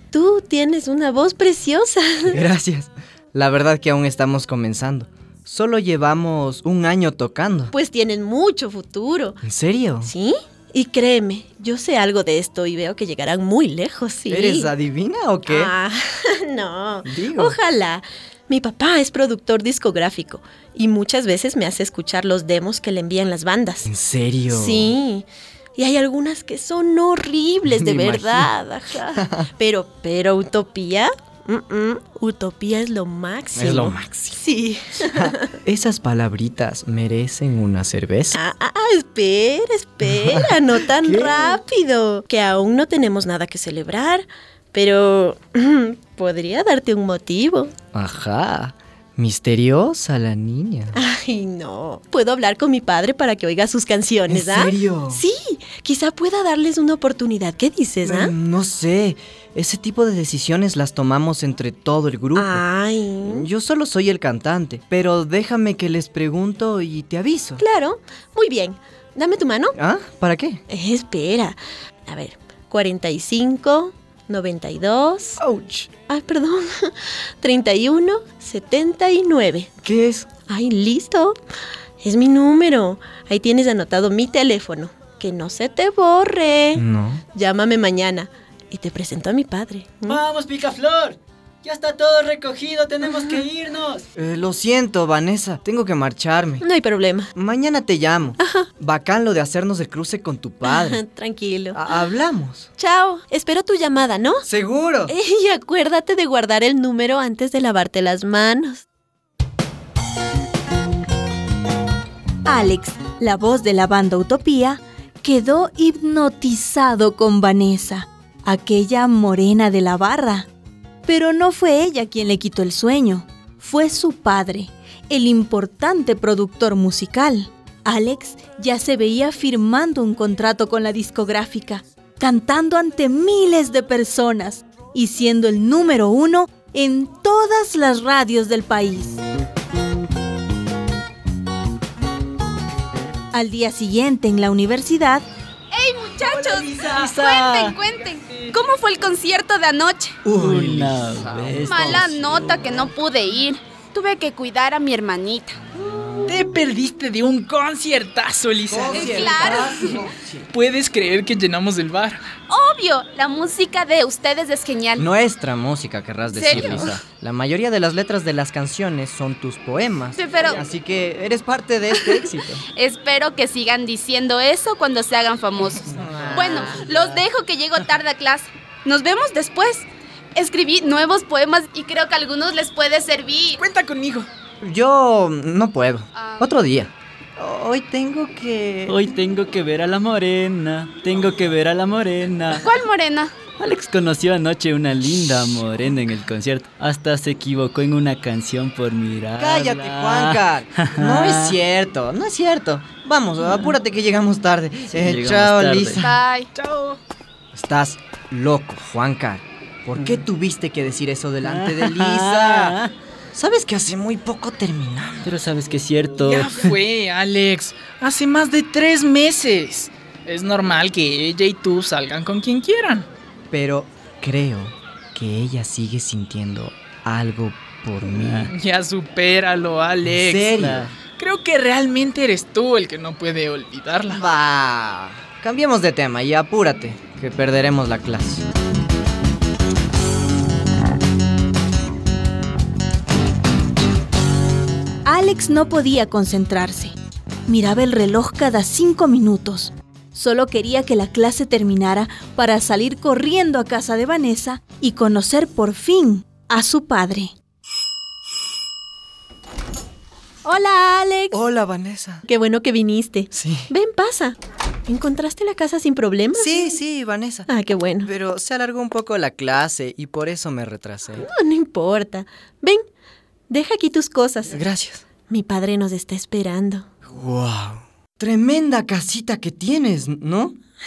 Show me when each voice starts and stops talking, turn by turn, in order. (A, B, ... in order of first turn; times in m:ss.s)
0:00.1-0:02.4 A
0:02.3-0:07.7 B
0:07.7-0:09.4 A
0:09.4-0:10.1 B
0:10.0-0:14.7 A
0:14.3-0:15.7 B
0:15.5-0:23.9 A
0:17.0-0:17.6 B
0:23.8-0:24.9 B
0:24.5-0:35.5 A
0:27.6-0:28.5 B
0:29.2-0:29.5 B
0:33.6-0:34.4 B
0:35.1-0:38.4 B
0:38.3-0:47.7 A
0:40.0-0:41.6 B
0:47.9-0:51.0 B
0:50.9-0:58.3 A
0:54.3-0:55.2 B
0:58.0-1:02.6 B
1:02.3-1:03.5 A
1:03.2-1:07.6 B
1:07.6-1:09.8 A
1:09.7-1:10.6 B
1:10.7-1:15.4 A
1:15.4-1:15.9 B
1:16.1-1:19.7 A
1:19.8-1:20.3 B
1:20.5-1:21.4 A
1:22.0-1:30.2 A
1:26.7-1:27.2 B
1:30.1-1:34.0 C
1:33.0-1:33.4 A
1:34.2-1:36.6 B
1:36.6-1:37.3 A
1:37.3-1:41.0 B
1:38.4-1:38.7 A
1:40.6-1:41.8 A
1:41.7-1:42.7 B
1:42.8-1:44.4 A
1:44.4-1:45.1 B
1:45.1-1:48.8 A
1:52.4-2:00.5 D
2:01.0-2:19.2 D
2:23.3-2:25.2 D
2:25.7-2:30.2 E
2:26.2-2:27.0 F
2:26.9-2:27.8 C
2:30.2-2:32.4 B
2:30.3-2:32.5 C
2:31.6-2:35.6 E
2:35.8-2:36.4 B
2:36.2-2:39.7 F
2:38.7-2:40.5 B
2:38.9-2:40.0 E
2:40.5-2:42.2 F
2:42.5-2:45.1 E
2:45.0-2:52.6 B
2:46.3-2:47.0 E
2:50.2-2:50.6 E
2:51.9-3:03.6 E
2:55.9-2:56.8 B
2:56.3-2:56.6 A
3:03.6-3:04.3 F
3:04.6-3:09.0 B
3:08.9-3:12.6 C
3:12.6-3:13.3 E
3:13.6-3:21.6 C
3:19.4-3:26.1 B
3:24.9-3:26.0 C
3:26.0-3:26.5 E
3:26.5-3:27.0 F
3:27.5-3:32.8 B
3:31.4-3:32.9 C
3:33.3-3:35.3 B
3:35.2-3:36.7 C
3:36.2-3:43.1 F
3:43.5-3:48.5 B
3:48.0-3:48.5 C
3:48.5-3:54.2 F
3:50.0-3:50.9 B
3:50.6-3:50.9 C
3:54.1-3:58.4 B
4:05.0-4:06.9 D
4:07.5-4:17.3 D
4:20.4-4:21.3 A
4:21.3-4:22.2 B
4:22.3-4:26.7 A
4:23.3-4:23.7 B
4:26.3-4:27.5 B
4:27.5-4:28.1 A
4:28.0-4:31.2 B
4:31.2-4:32.8 A
4:33.5-4:34.6 A
4:34.5-4:35.0 B
4:35.3-4:36.9 A
4:37.1-4:40.6 B